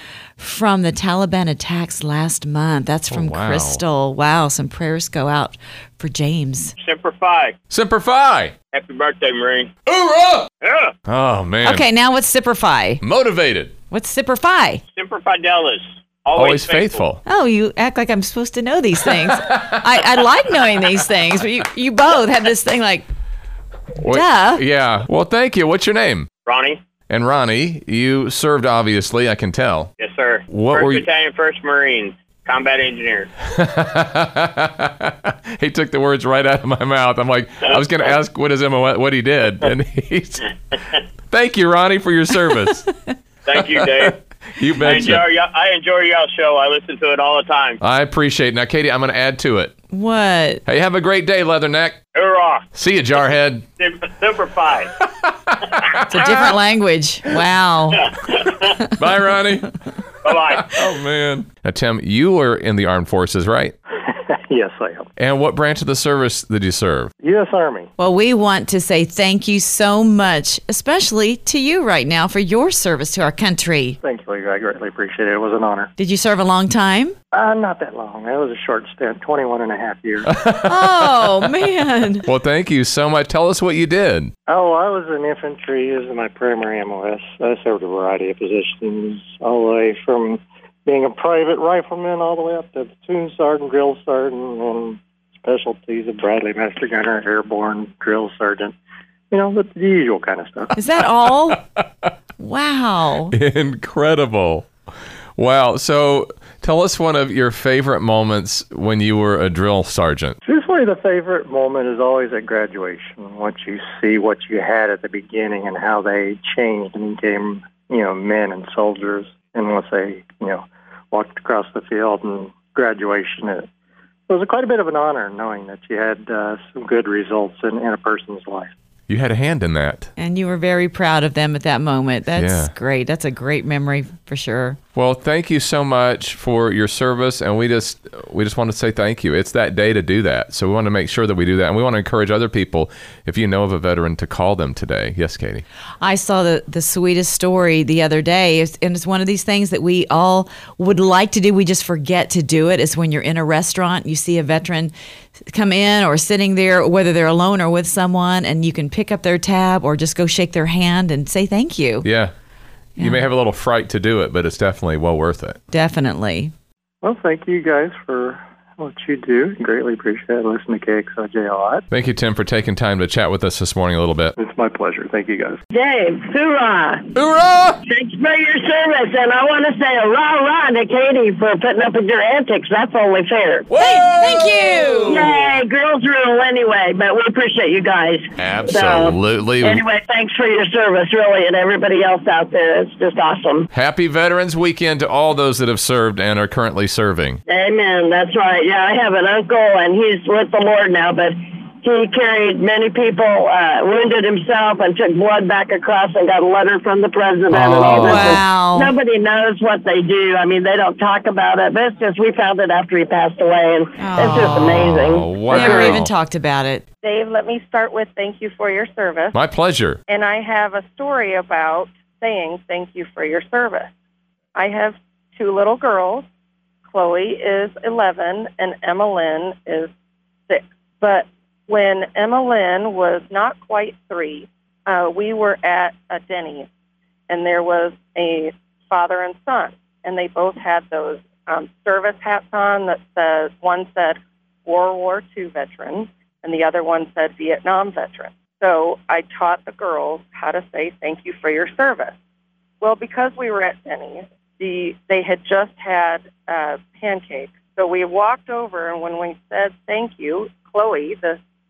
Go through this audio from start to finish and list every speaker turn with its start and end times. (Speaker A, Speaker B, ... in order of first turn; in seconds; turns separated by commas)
Speaker A: 0.4-6.7, Speaker B: 3.1-3.8, Speaker C: 6.8-7.6, Speaker B: 7.7-8.5, Speaker C: 8.7-9.7, Speaker B: 9.9-10.5, Speaker C: 10.6-10.9, Speaker B: 11.1-11.8, Speaker A: 11.6-13.0, Speaker B: 13.0-13.7, Speaker A: 13.9-14.8, Speaker C: 14.9-17.0, Speaker B: 16.3-17.2, Speaker A: 17.2-23.0, Speaker B: 19.1-19.9, Speaker B: 24.0-26.3, Speaker A: 24.0-24.6, Speaker C: 26.4-26.8, Speaker B: 27.1-29.9, Speaker C: 30.0-33.3, Speaker B: 30.5-31.1, Speaker B: 33.5-40.5, Speaker B: 41.3-42.9, Speaker C: 43.5-44.2, Speaker B: 43.5-45.2, Speaker C: 44.8-47.8, Speaker B: 47.8-49.7, Speaker A: 49.9-50.6, Speaker B: 50.6-52.0, Speaker C: 52.1-52.6, Speaker B: 52.7-53.6, Speaker C: 53.8-54.9, Speaker B: 55.2-56.5, Speaker A: 56.1-58.1, Speaker C: 58.0-58.6, Speaker B: 58.9-59.7, Speaker C: 60.2-60.8, Speaker B: 60.5-63.7, Speaker D: 64.0-65.1, Speaker B: 65.2-67.1, Speaker D: 67.2-67.9, Speaker A: 68.0-74.0, Speaker D: 74.0-75.9, Speaker A: 76.0-77.1, Speaker D: 77.3-80.3, Speaker B: 80.3-81.1, Speaker A: 80.6-82.2, Speaker B: 82.2-84.3, Speaker D: 84.5-98.7, Speaker D: 99.3-100.7, Speaker A: 100.8-101.6, Speaker A: 102.4-103.3, Speaker B: 103.3-104.7, Speaker B: 105.4-110.4, Speaker D: 110.4-123.7, Speaker D: 124.3-128.7, Speaker B: 129.1-130.1, Speaker A: 130.2-134.8, Speaker B: 132.3-132.7, Speaker B: 134.9-145.6, Speaker A: 146.0-154.9, Speaker A: 155.5-162.1, Speaker B: 162.0-162.3, Speaker B: 163.0-165.6, Speaker A: 163.0-163.2, Speaker A: 165.7-166.5, Speaker D: 167.0-171.8, Speaker B: 171.9-174.3, Speaker D: 174.4-175.6, Speaker E: 175.7-177.1, Speaker B: 177.1-177.8, Speaker E: 177.8-183.6, Speaker B: 183.7-185.4, Speaker A: 183.8-185.3, Speaker E: 185.1-193.7, Speaker B: 188.4-189.8, Speaker B: 193.7-197.4, Speaker E: 197.5-215.9, Speaker B: 207.5-208.4, Speaker A: 207.9-208.9, Speaker A: 214.0-214.8, Speaker B: 214.4-216.1, Speaker A: 215.5-216.8, Speaker F: 217.0-219.4, Speaker B: 219.3-220.0, Speaker F: 220.1-223.9, Speaker F: 224.5-226.2, Speaker F: 226.8-229.9, Speaker F: 230.5-236.7, Speaker F: 237.3-252.1, Speaker F: 252.8-261.4